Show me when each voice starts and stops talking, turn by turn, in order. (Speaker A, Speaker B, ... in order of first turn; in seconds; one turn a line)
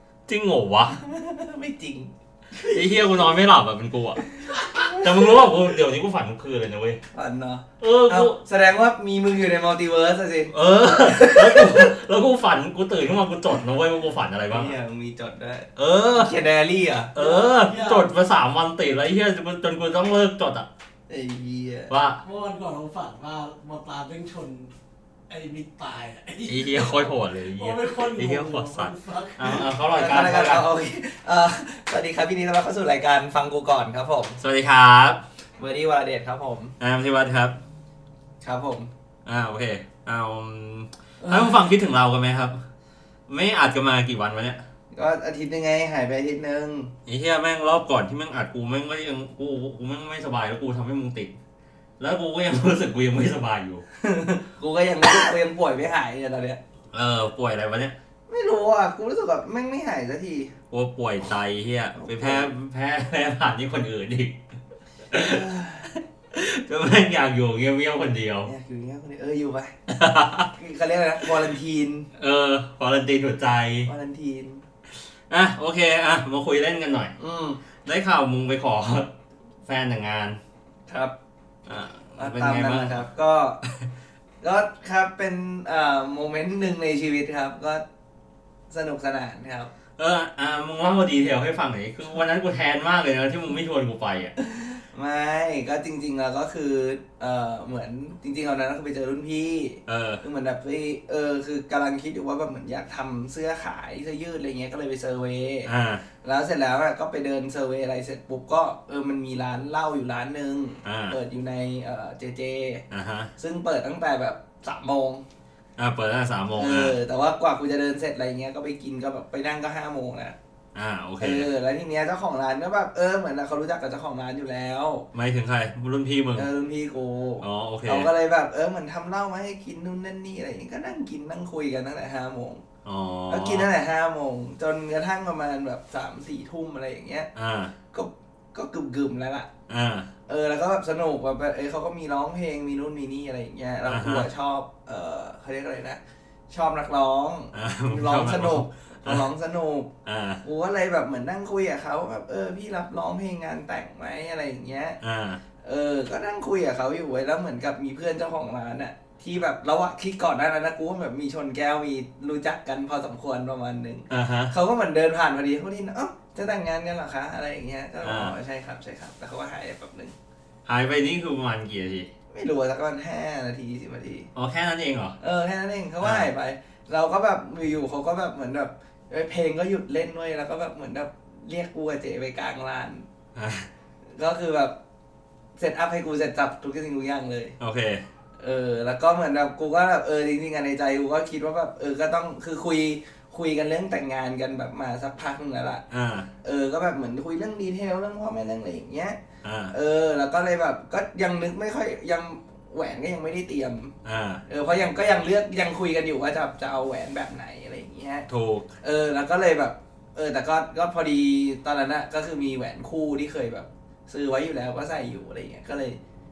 Speaker A: 0.3-1.0
Speaker B: 1.0-2.1
Speaker A: 2.6-4.2
Speaker A: 4.8-7.0
Speaker B: 7.1-11.9
Speaker A: 7.8-8.4
Speaker A: 10.5-14.7
Speaker B: 14.5-17.4
Speaker A: 15.8-16.3
Speaker A: 17.1-20.7
Speaker C: 17.4-18.1
Speaker B: 21.1-21.9
Speaker A: 21.9-22.2
Speaker C: 22.2-24.7
Speaker C: 25.3-29.6
Speaker A: 26.5-30.6
Speaker B: 29.9-34.4
Speaker A: 34.4-35.2
Speaker B: 35.6-36.7
Speaker A: 36.8-37.6
Speaker B: 38.4-38.9
Speaker A: 39.2-42.6
Speaker B: 41.2-41.6
Speaker A: 43.3-44.6
Speaker B: 44.9-46.9
Speaker A: 47.1-51.3
Speaker A: 52.0-53.8
Speaker B: 54.0-56.6
Speaker A: 56.9-58.0
Speaker B: 58.3-60.5
Speaker A: 60.7-64.4
Speaker B: 61.9-62.5
Speaker A: 65.1-65.4
Speaker B: 65.1-65.9
Speaker A: 66.3-68.5
Speaker B: 68.4-69.8
Speaker A: 69.9-70.5
Speaker B: 70.5-72.1
Speaker A: 72.2-73.9
Speaker B: 73.8-74.6
Speaker A: 75.3-77.1
Speaker B: 77.2-77.6
Speaker A: 77.8-79.1
Speaker A: 79.7-80.4
Speaker B: 80.9-81.1
Speaker A: 81.7-83.0
Speaker B: 82.2-83.6
Speaker B: 84.4-87.8
Speaker B: 88.7-89.7
Speaker A: 90.0-94.3
Speaker B: 94.8-105.7
Speaker A: 99.9-100.2
Speaker A: 105.7-106.0
Speaker B: 106.2-112.8
Speaker A: 110.8-111.2
Speaker A: 112.9-113.3
Speaker B: 113.4-115.2
Speaker A: 115.8-117.0
Speaker B: 116.5-120.3
Speaker A: 120.7-121.5
Speaker B: 121.2-125.1
Speaker A: 125.1-126.5
Speaker B: 126.3-132.6
Speaker A: 127.4-128.1
Speaker A: 132.8-133.7
Speaker B: 133.3-137.3
Speaker A: 137.3-137.7
Speaker B: 137.9-139.5
Speaker A: 139.7-140.1
Speaker B: 140.3-149.9
Speaker A: 143.9-144.3
Speaker A: 147.5-149.3
Speaker A: 150.0-150.4
Speaker B: 150.4-155.0
Speaker A: 155.0-155.4
Speaker B: 155.6-170.1
Speaker A: 164.1-164.5
Speaker A: 168.0-168.3
Speaker A: 170.7-172.1
Speaker B: 172.3-174.3
Speaker A: 174.3-175.2
Speaker B: 175.2-183.0
Speaker A: 176.0-176.3
Speaker A: 183.3-183.7
Speaker B: 184.1-184.7
Speaker B: 185.6-187.5
Speaker A: 187.6-188.0
Speaker B: 188.4-195.8
Speaker A: 195.9-196.3
Speaker B: 196.4-199.2
Speaker A: 199.4-199.7
Speaker B: 199.7-203.9
Speaker A: 204.0-204.4
Speaker B: 204.5-208.3
Speaker A: 208.3-208.7
Speaker B: 208.8-216.0